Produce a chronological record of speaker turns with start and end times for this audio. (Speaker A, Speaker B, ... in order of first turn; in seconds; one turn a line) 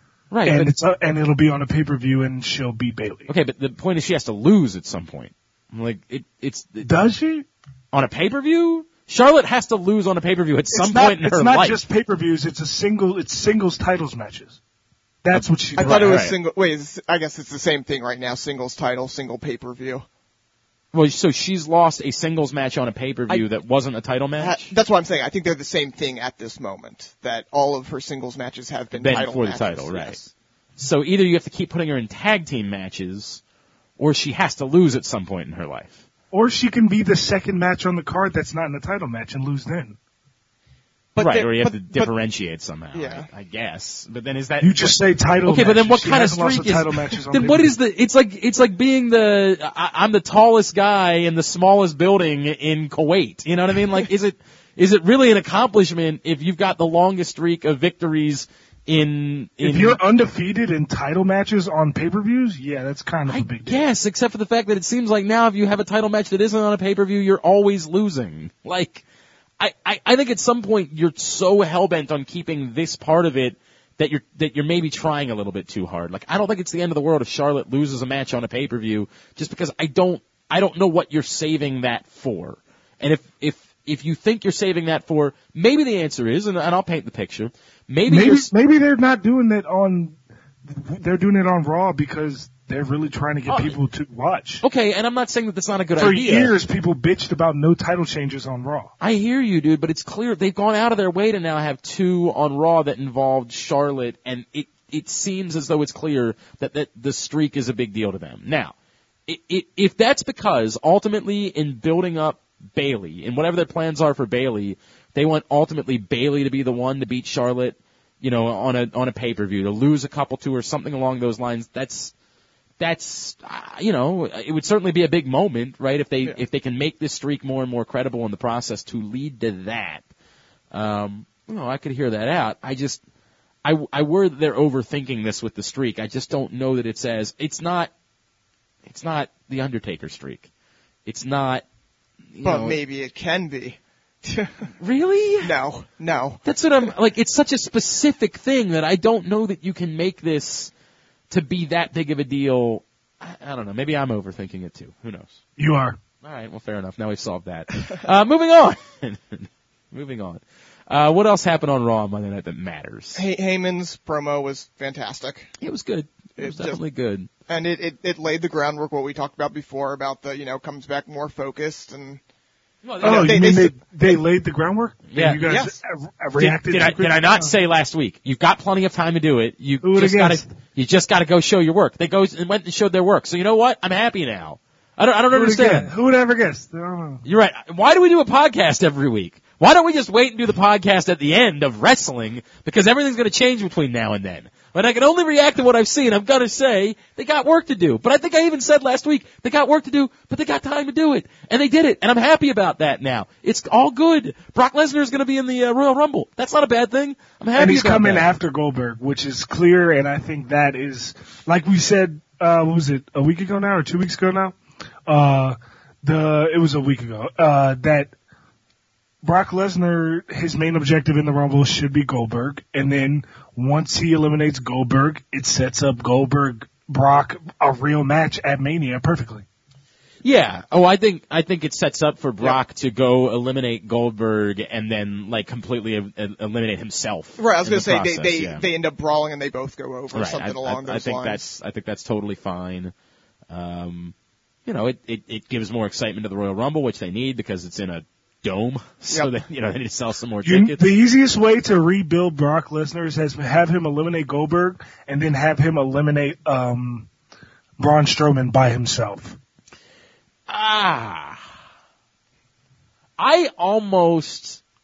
Speaker A: 0.3-0.7
Speaker B: 0.4-3.3
Speaker A: 3.3-6.9
Speaker B: 6.8-7.5
Speaker A: 7.9-11.8
Speaker B: 10.7-14.6
Speaker B: 15.2-16.3
Speaker A: 15.3-16.4
Speaker C: 15.8-20.1
Speaker A: 20.9-24.7
Speaker C: 24.4-30.3
Speaker A: 28.9-30.2
Speaker A: 30.8-33.4
Speaker A: 34.0-36.0
Speaker B: 36.3-40.0
Speaker C: 41.1-42.1
Speaker A: 41.2-60.0
Speaker C: 42.9-43.3
Speaker B: 44.6-47.7
Speaker B: 59.6-63.9
Speaker A: 63.3-69.0
Speaker A: 69.6-88.5
Speaker B: 88.1-94.6
Speaker A: 93.5-93.8
Speaker A: 94.6-96.5
Speaker B: 96.0-98.9
Speaker A: 99.0-108.7
Speaker A: 109.3-122.1
Speaker A: 122.8-130.0
Speaker A: 130.7-133.0
Speaker A: 133.6-137.9
Speaker A: 138.9-140.5
Speaker A: 141.1-141.6
Speaker A: 142.3-142.8
Speaker C: 142.4-144.7
Speaker A: 144.8-145.5
Speaker C: 145.4-146.9
Speaker A: 146.4-150.7
Speaker A: 151.3-155.4
Speaker B: 155.6-156.0
Speaker A: 156.2-163.2
Speaker C: 163.2-165.5
Speaker A: 165.6-167.3
Speaker C: 166.4-166.8
Speaker C: 167.5-172.2
Speaker A: 172.8-173.4
Speaker C: 173.0-174.1
Speaker B: 173.0-177.5
Speaker A: 175.1-175.4
Speaker C: 175.4-175.8
Speaker A: 176.4-185.9
Speaker B: 179.8-180.5
Speaker B: 185.3-187.2
Speaker A: 187.2-208.3
Speaker B: 207.5-218.1
Speaker B: 219.2-229.4
Speaker A: 230.2-238.6
Speaker C: 237.4-241.4
Speaker A: 240.1-242.9
Speaker A: 243.5-244.1
Speaker A: 244.7-250.9
Speaker B: 250.4-257.1
Speaker B: 257.8-259.4
Speaker A: 260.5-261.4
Speaker A: 263.2-264.6